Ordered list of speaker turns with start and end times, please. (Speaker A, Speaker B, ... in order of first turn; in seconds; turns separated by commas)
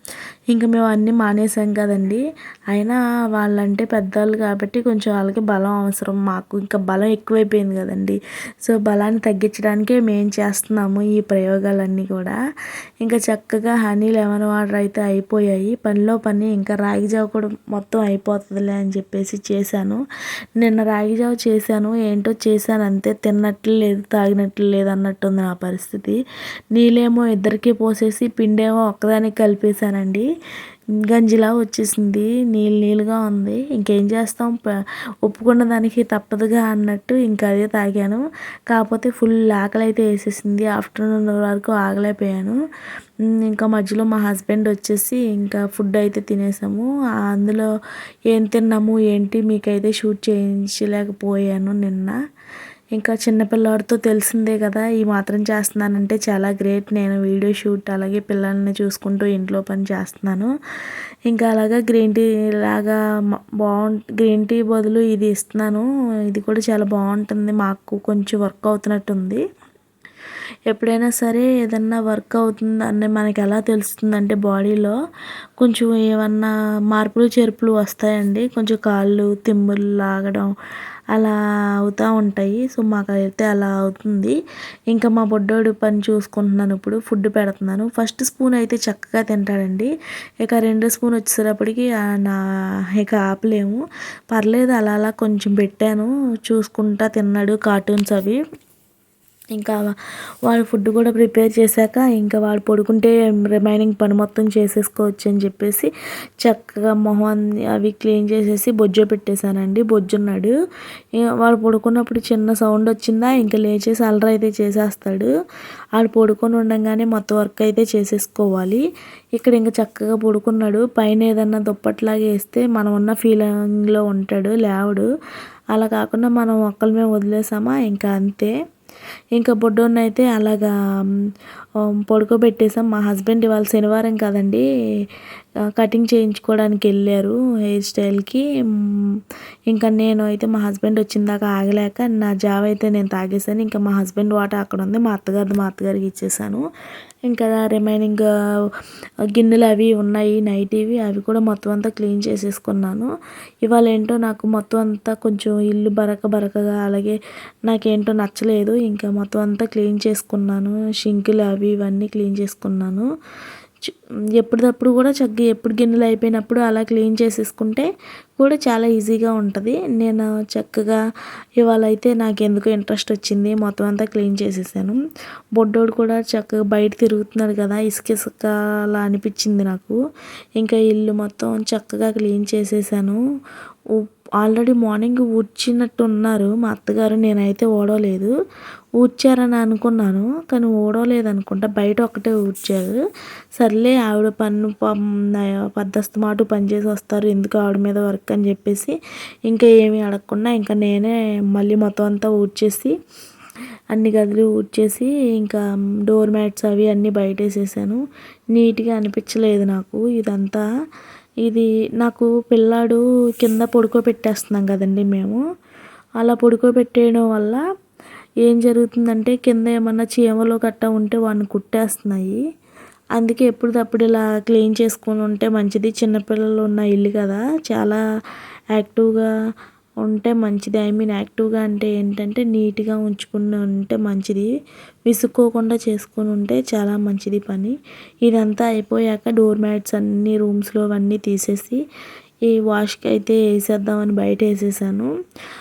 Speaker A: 0.5-12.4, Speaker A: 13.0-20.0, Speaker A: 20.6-26.2, Speaker A: 26.7-30.3, Speaker A: 31.0-34.6, Speaker A: 35.2-42.6, Speaker A: 43.3-47.7, Speaker A: 48.3-52.2, Speaker A: 53.0-60.5, Speaker A: 61.3-63.0, Speaker A: 63.6-69.4, Speaker A: 70.7-75.0, Speaker A: 75.6-80.5, Speaker A: 81.1-84.4, Speaker A: 84.9-89.9, Speaker A: 90.4-92.4, Speaker A: 93.0-98.4, Speaker A: 100.5-105.9, Speaker A: 106.4-110.5, Speaker A: 111.2-115.3, Speaker A: 116.0-118.8, Speaker A: 119.4-125.1, Speaker A: 125.7-128.5, Speaker A: 129.3-130.7, Speaker A: 132.1-134.6, Speaker A: 135.8-138.4, Speaker A: 139.7-146.6, Speaker A: 147.3-148.3, Speaker A: 149.3-153.1, Speaker A: 153.7-163.1, Speaker A: 163.9-167.9, Speaker A: 168.4-171.0, Speaker A: 171.6-175.0, Speaker A: 175.6-180.0, Speaker A: 180.6-183.2, Speaker A: 183.9-188.3, Speaker A: 189.0-193.0, Speaker A: 193.6-199.0, Speaker A: 199.5-202.9, Speaker A: 203.9-208.0, Speaker A: 208.5-210.6, Speaker A: 211.4-215.4, Speaker A: 216.2-217.6, Speaker A: 218.4-222.4, Speaker A: 223.2-228.0, Speaker A: 228.8-229.3, Speaker A: 230.1-234.5, Speaker A: 235.1-241.8, Speaker A: 242.5-245.1